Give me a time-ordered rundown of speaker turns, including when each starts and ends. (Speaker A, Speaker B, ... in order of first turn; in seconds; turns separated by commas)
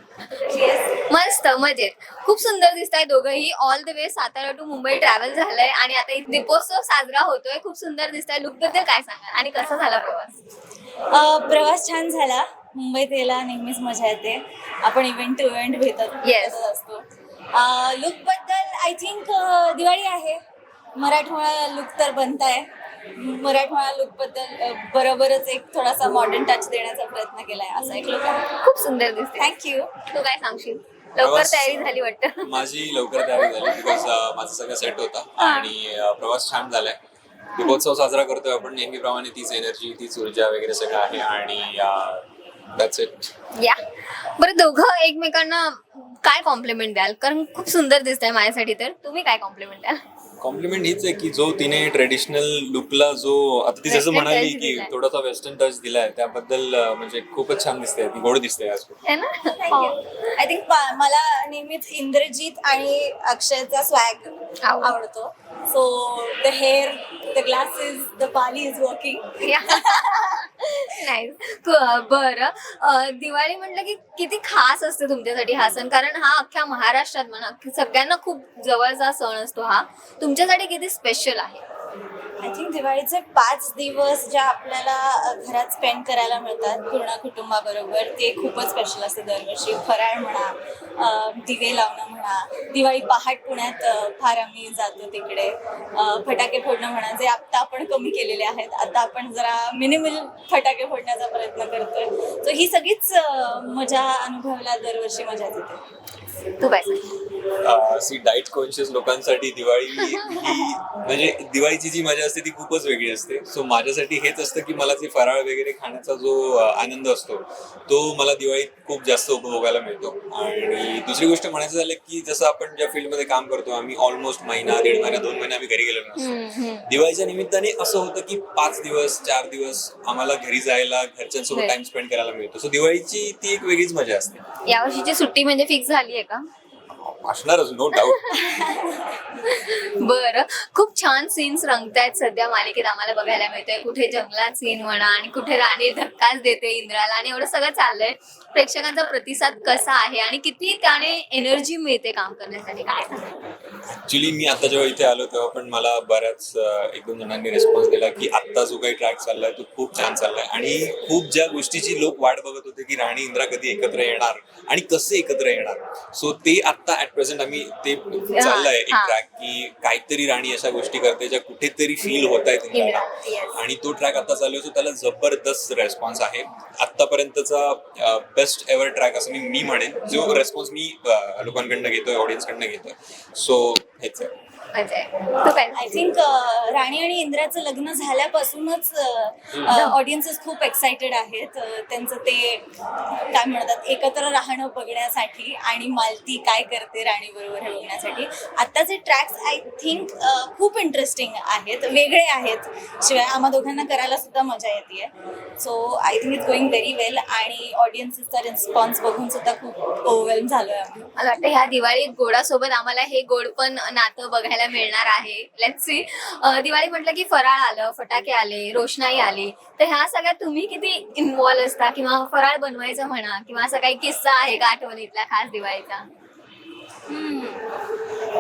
Speaker A: 0.3-10.4, Speaker B: 0.5-0.9, Speaker B: 11.1-20.4, Speaker A: 16.2-16.6, Speaker B: 21.0-28.6, Speaker A: 28.5-29.5, Speaker B: 29.4-30.0, Speaker A: 30.0-32.6, Speaker C: 31.2-37.0, Speaker A: 33.2-34.1, Speaker A: 35.4-35.7, Speaker C: 37.5-42.2, Speaker C: 42.8-43.3, Speaker A: 43.6-50.0, Speaker C: 50.4-59.0, Speaker A: 53.9-54.9, Speaker A: 59.0-60.0, Speaker B: 59.4-70.4, Speaker A: 64.6-65.0, Speaker A: 69.4-81.6, Speaker B: 82.4-105.8, Speaker A: 106.6-107.0, Speaker C: 107.6-134.4, Speaker A: 110.0-110.5, Speaker A: 126.2-126.9, Speaker A: 131.5-131.8, Speaker A: 134.7-136.5, Speaker C: 136.9-138.7, Speaker A: 137.9-138.6, Speaker B: 138.4-139.2, Speaker A: 139.4-153.3, Speaker C: 153.9-184.3, Speaker A: 168.3-169.2, Speaker A: 172.7-173.6, Speaker A: 184.7-186.0, Speaker B: 185.7-192.7, Speaker A: 189.7-190.0, Speaker B: 193.3-211.1, Speaker A: 211.2-226.1, Speaker B: 227.1-227.7